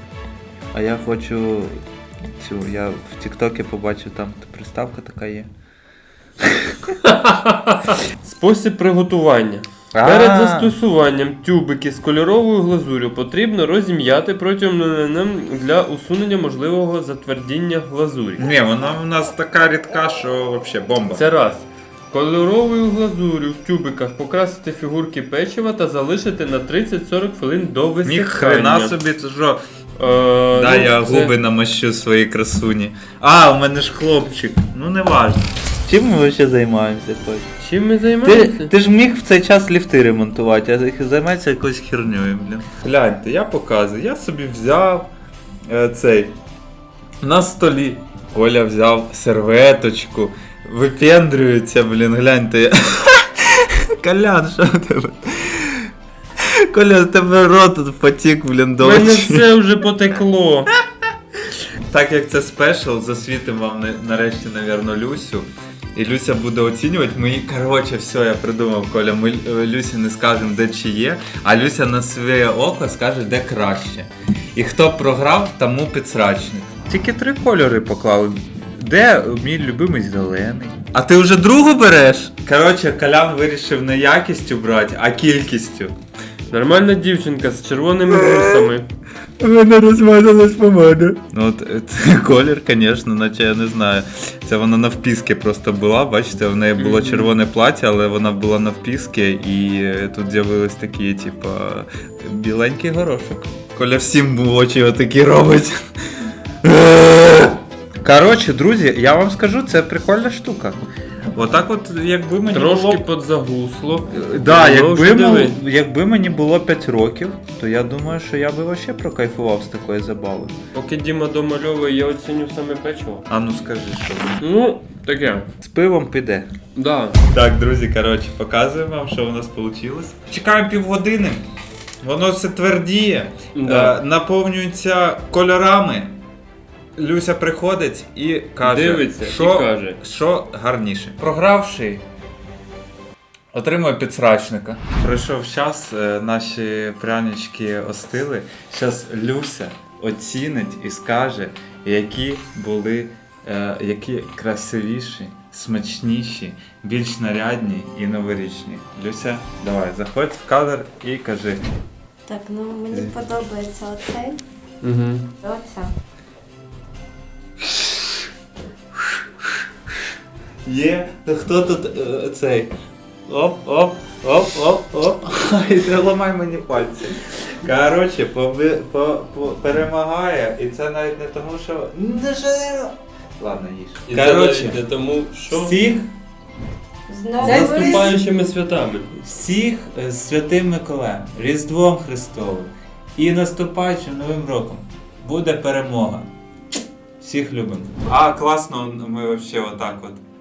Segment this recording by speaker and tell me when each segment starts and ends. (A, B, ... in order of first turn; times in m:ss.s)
0:00.7-0:01.7 A
0:02.4-0:05.5 A
0:06.4-0:06.8 A
0:07.0-0:18.4 B
0:09.9-0:10.7 A
0:18.4-0:21.2 A
0:21.1-0:28.9 B
0:28.0-0:29.6 A
0:30.0-0:31.3 B
0:30.5-0:37.5 A
0:37.6-0:38.7 B
0:38.2-0:45.1 A
0:45.7-0:46.3 A
0:47.2-0:59.5 A
0:58.8-1:00.7 B
1:01.9-1:25.9 A
1:26.5-1:28.9 B
1:28.2-1:28.7 A
1:29.4-1:50.8 A
1:36.8-1:37.3 B
1:51.3-1:53.0 A
1:52.5-1:55.6 B
1:54.1-2:00.6 A
2:00.7-2:03.2 B
2:03.3-2:04.4 A
2:04.4-2:05.5 B
2:05.6-2:06.5 A
2:06.7-2:07.2 B
2:07.3-2:11.4 A
2:12.0-2:16.1 A
2:13.5-2:14.0 B
2:17.0-2:22.0 A
2:18.6-2:20.0 B
2:23.5-2:41.6 A
2:42.3-2:44.4 C
2:42.9-2:43.3 A
2:44.8-2:45.3 B
2:45.4-2:45.9 C
2:47.6-2:48.3 A
2:49.0-2:49.6 A
2:50.6-2:52.7 A
2:53.3-3:04.8 A
3:04.1-3:05.8 B
3:05.5-3:06.1 A
3:07.1-3:08.1 C
3:07.4-3:08.2 A
3:07.4-3:09.1 B
3:09.2-3:16.3 A
3:17.2-3:20.2 A